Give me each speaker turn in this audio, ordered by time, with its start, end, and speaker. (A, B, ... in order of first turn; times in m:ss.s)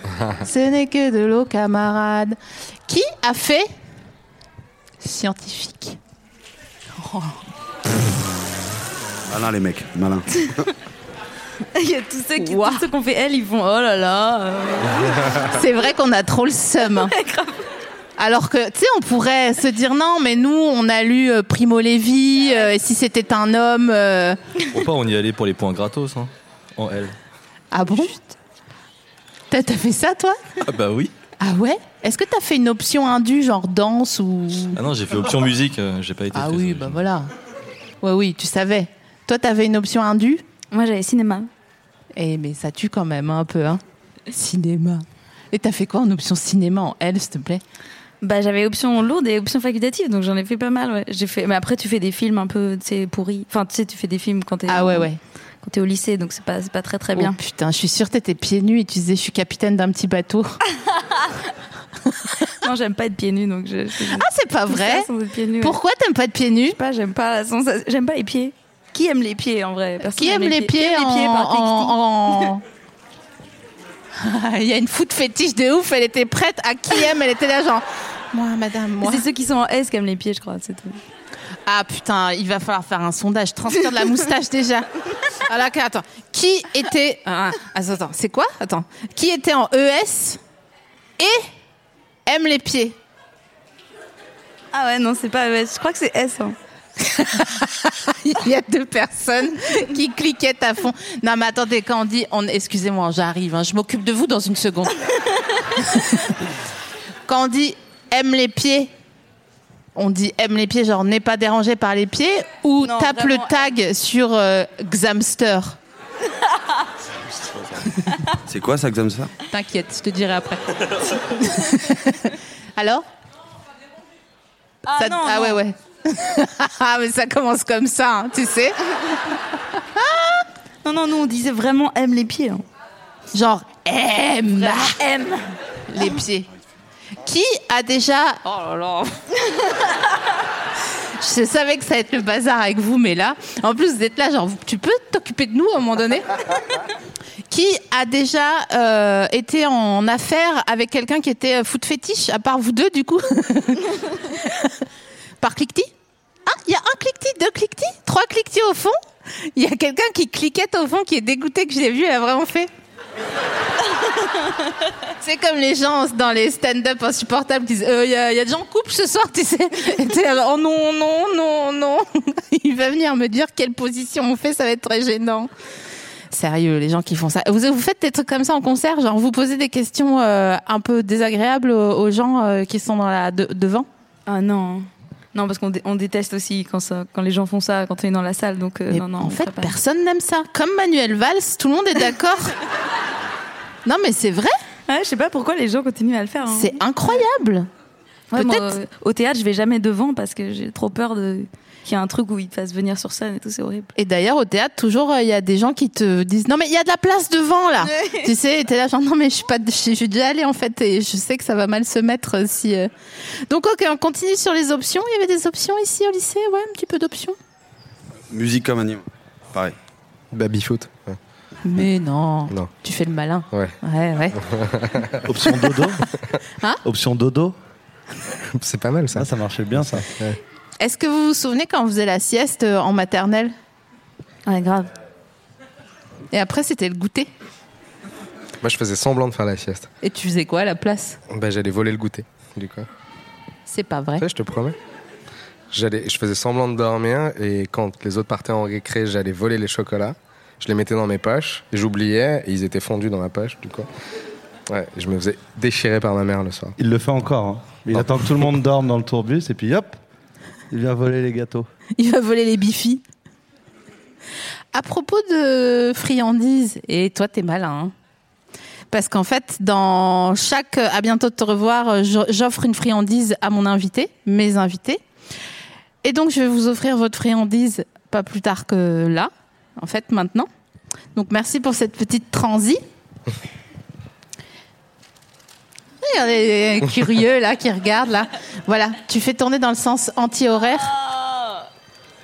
0:00.4-0:02.4 A
0:02.9-0:03.7 A
0:05.0-0:06.0 A
0:07.0-0:07.4 A
0:09.3-0:10.7 B
0:11.7-0:15.2 C
0:12.4-0:12.8 A
0:15.4-0:17.1 A
0:16.9-0:17.6 C
0:18.2-0:24.4 A
0:22.4-0:22.7 C
0:24.7-0:27.2 D
0:27.7-0:28.2 A
0:29.5-0:30.4 A
0:30.6-0:31.1 D
0:31.4-0:34.8 A
0:34.8-0:37.0 D
0:36.3-0:37.3 A
0:38.0-0:40.4 A
0:40.7-0:41.5 C
0:42.2-0:43.8 A
0:44.3-0:47.6 A
0:48.2-0:55.1 C
0:54.7-0:55.2 A
0:55.6-0:57.4 C
0:57.2-1:00.6 A
1:02.6-1:05.8 C
1:04.1-1:05.1 A
1:05.6-1:06.8 A
1:06.7-1:12.0 C
1:10.0-1:12.6 A
1:14.2-1:19.2 A
1:19.0-1:21.0 C
1:21.7-1:30.4 A
1:31.2-1:31.4 A
1:32.3-1:33.0 A
1:34.7-1:36.6 C
1:37.0-1:45.1 A
1:45.8-1:46.4 A
1:47.3-1:48.9 A
1:50.0-1:55.8 A
1:52.8-1:53.6 C
1:58.5-1:59.3 B
1:59.5-2:03.0 A
2:04.9-2:05.6 C
2:05.0-2:08.8 A
2:09.8-2:10.4 A
2:10.8-2:12.6 C
2:13.3-2:15.0 A
2:14.5-2:15.4 C
2:15.9-2:16.5 A
2:17.2-2:19.1 A
2:21.2-2:26.4 A
2:27.5-2:34.7 A
2:35.4-2:35.9 A
2:36.5-2:39.0 A
2:39.6-2:42.7 A
2:45.2-2:55.5 A
2:56.3-3:03.9 A
3:04.3-3:09.8 C
3:08.9-3:12.6 A
3:13.9-3:14.5 A
3:14.9-3:16.8 C
3:16.5-3:17.7 A
3:18.3-3:23.9 C
3:18.3-3:18.8 A
3:24.0-3:32.9 A
3:27.8-3:28.3 C
3:33.5-3:37.4 A
3:38.3-3:39.7 B
3:40.3-3:41.2 E
3:41.6-3:44.4 A
3:44.4-3:45.5 E
3:45.2-3:46.0 F
3:46.8-3:47.6 F
3:48.6-3:49.3 E
3:49.1-3:50.1 F
3:50.0-3:50.4 E
3:50.8-3:53.6 A
3:54.5-3:54.9 C
3:56.3-3:57.3 A
3:58.6-3:59.9 E
4:00.0-4:01.2 A
4:01.3-4:02.9 E
4:03.7-4:04.3 A
4:04.2-4:04.8 E
4:05.7-4:13.9 E
4:14.7-4:16.8 E
4:16.8-4:20.0 F
4:20.7-4:21.7 F
4:22.0-4:23.0 A
4:24.7-4:27.9 A
4:28.9-4:35.0 A
4:36.0-4:40.5 A
4:41.2-4:42.8 A
4:46.0-4:50.9 A
4:50.9-4:51.6 C